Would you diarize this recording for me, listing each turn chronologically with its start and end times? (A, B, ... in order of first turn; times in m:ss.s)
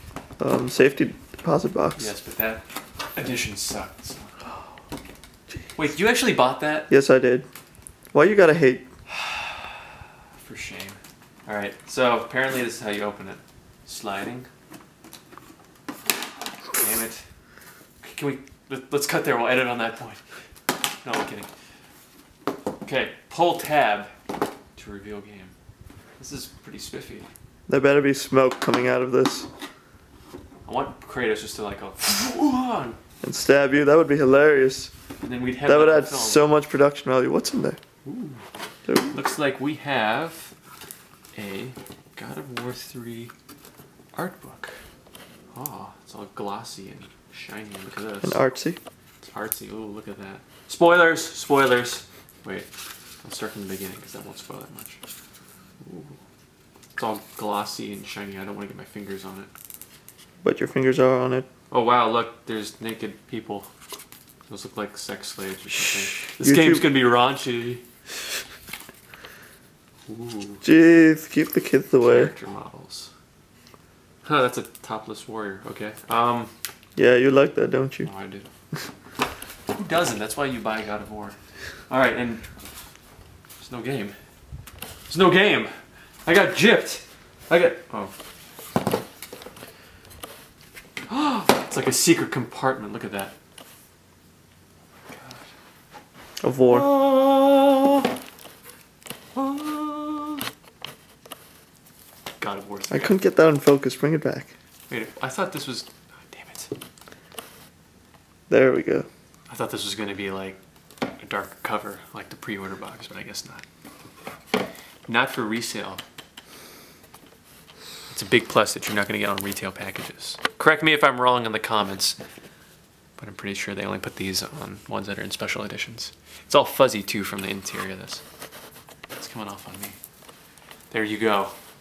0:00.4-0:02.1 A
0:02.0-0:02.6 B
0:03.2-0:04.5 B
0:05.8-0:06.9 B
0:06.9-0:07.5 A
0:08.1-0:08.9 A
0:09.1-0:09.8 B
0:10.4-0:14.5 B
0:16.8-0:17.3 B
0:18.0-0:20.2 B
0:21.0-0:21.5 B
0:22.8-0:24.1 B
0:24.8-0:25.5 B
0:26.2-0:27.3 B
0:27.7-0:29.5 A
0:30.7-0:33.0 B
0:33.2-0:34.9 A
0:35.2-0:36.4 B
0:35.7-0:37.8 A
0:38.0-0:38.4 B
0:38.9-0:39.2 A
0:39.1-0:40.5 B
0:41.4-0:43.3 B
0:44.1-0:44.8 B
0:45.5-0:48.4 B
0:48.2-0:48.8 A
0:49.2-0:52.7 B
0:53.2-0:55.0 B
0:55.8-0:56.2 B
0:57.0-0:59.5 B
1:00.4-1:01.5 A
1:01.7-1:03.7 B
1:04.5-1:07.8 B
1:06.3-1:06.9 A
1:10.1-1:10.6 B
1:10.6-1:12.3 A
1:12.0-1:13.1 B
1:14.2-1:16.5 B
1:17.0-1:18.1 A
1:18.0-1:18.5 B
1:19.7-1:21.4 B
1:21.9-1:22.5 B
1:23.6-1:24.2 B
1:25.1-1:25.7 B
1:26.2-1:28.1 B
1:31.1-1:33.3 B
1:35.1-1:35.5 B
1:36.4-1:36.9 A
1:36.6-1:38.1 B
1:39.3-1:40.4 B
1:42.4-1:43.2 B
1:42.9-1:44.5 A
1:44.9-1:46.7 B
1:48.5-1:49.1 A
1:49.5-1:50.6 B
1:51.2-1:53.6 B
1:55.1-1:56.0 B
1:58.1-2:02.2 B
2:03.2-2:08.2 B
2:09.2-2:10.0 B
2:10.9-2:11.5 B